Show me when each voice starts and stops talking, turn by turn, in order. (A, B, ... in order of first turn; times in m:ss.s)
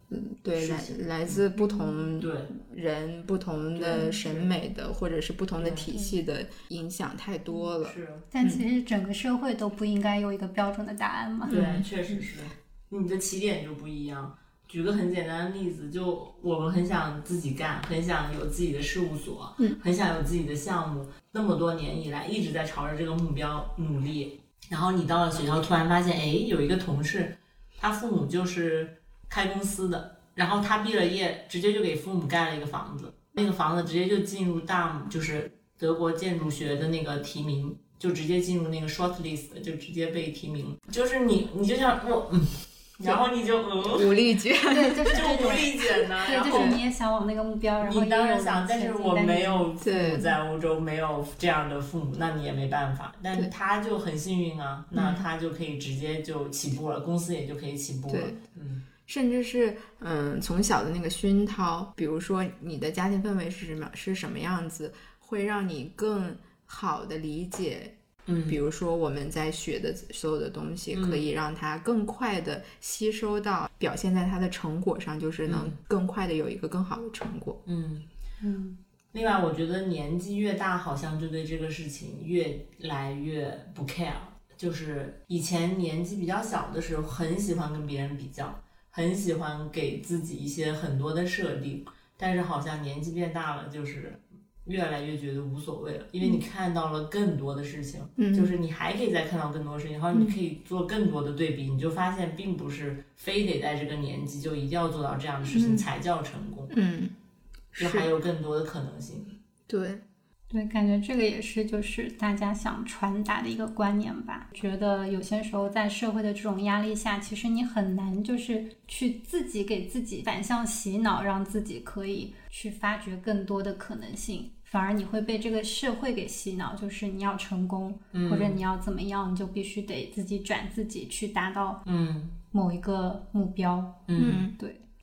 0:00.1-0:08.6 A
0:00.6-0:01.4 B
0:01.6-0:01.9 C
0:02.2-0:02.5 B
0:03.7-0:04.5 B
0:05.6-0:05.9 B
0:07.8-0:08.3 B
0:08.3-0:12.2 C
0:11.5-0:11.8 A
0:11.5-0:44.2 B
0:43.8-0:46.8 A
0:44.7-0:50.2 C
0:45.1-0:46.8 B
0:47.8-0:58.8 B
0:49.8-0:50.3 A
0:54.9-0:55.2 A
0:58.1-0:58.4 A
0:59.0-1:08.0 A
1:08.3-1:08.6 B
1:08.5-1:17.6 A
1:10.9-1:11.2 B
1:15.4-1:15.8 B
1:17.6-1:18.0 B
1:18.4-1:18.8 C
1:19.1-1:46.7 B
1:38.2-1:38.5 A
1:45.5-1:45.9 A
1:46.7-1:47.1 A
1:47.7-1:48.1 A
1:47.8-1:49.3 B
1:49.7-1:50.0 A
1:50.5-2:11.8 C
2:08.1-2:08.6 B
2:11.8-2:12.4 B
2:12.5-2:14.8 C
2:14.1-2:14.4 B
2:14.2-2:14.5 A